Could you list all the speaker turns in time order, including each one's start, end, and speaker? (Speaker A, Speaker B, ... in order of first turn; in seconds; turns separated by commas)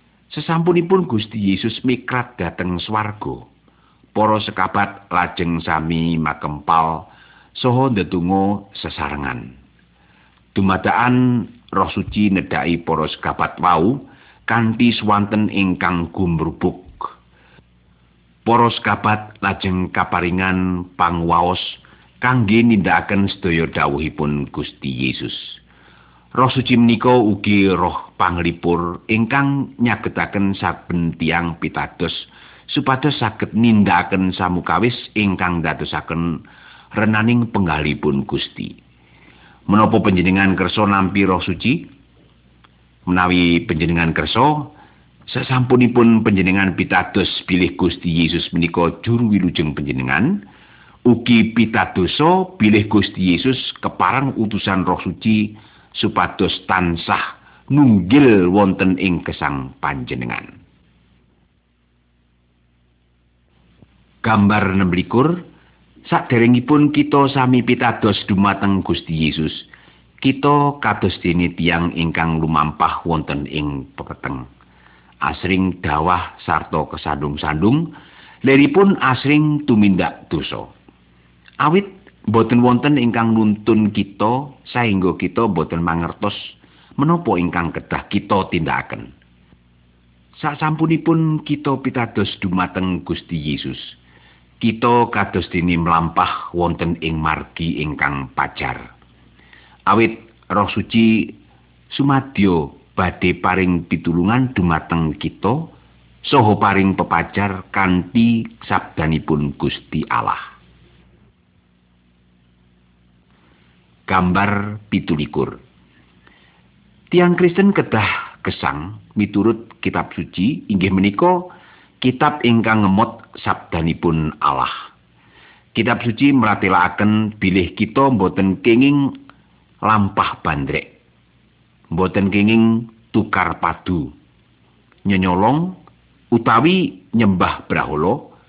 Speaker A: 0.3-3.5, Speaker A: 4.1-9.5, Speaker A: 10.5-17.1, Speaker A: 18.4-25.6, Speaker A: 26.4-36.4, Speaker A: 36.9-38.7, Speaker A: 39.7-41.9, Speaker A: 43.1-44.7, Speaker A: 45.3-50.4, Speaker A: 51.1-60.5, Speaker A: 64.2-65.4, Speaker A: 66.0-69.7, Speaker A: 70.2-74.5, Speaker A: 75.2-77.9, Speaker A: 78.4-80.7, Speaker A: 81.6-89.1, Speaker A: 90.3-94.0, Speaker A: 94.6-98.8, Speaker A: 99.9-101.3, Speaker A: 101.9-105.7, Speaker A: 106.2-110.4, Speaker A: 114.1-115.6, Speaker A: 117.1-124.7, Speaker A: 125.7-129.1, Speaker A: 129.8-130.9, Speaker A: 131.9-134.1, Speaker A: 135.1-135.8, Speaker A: 136.3-138.3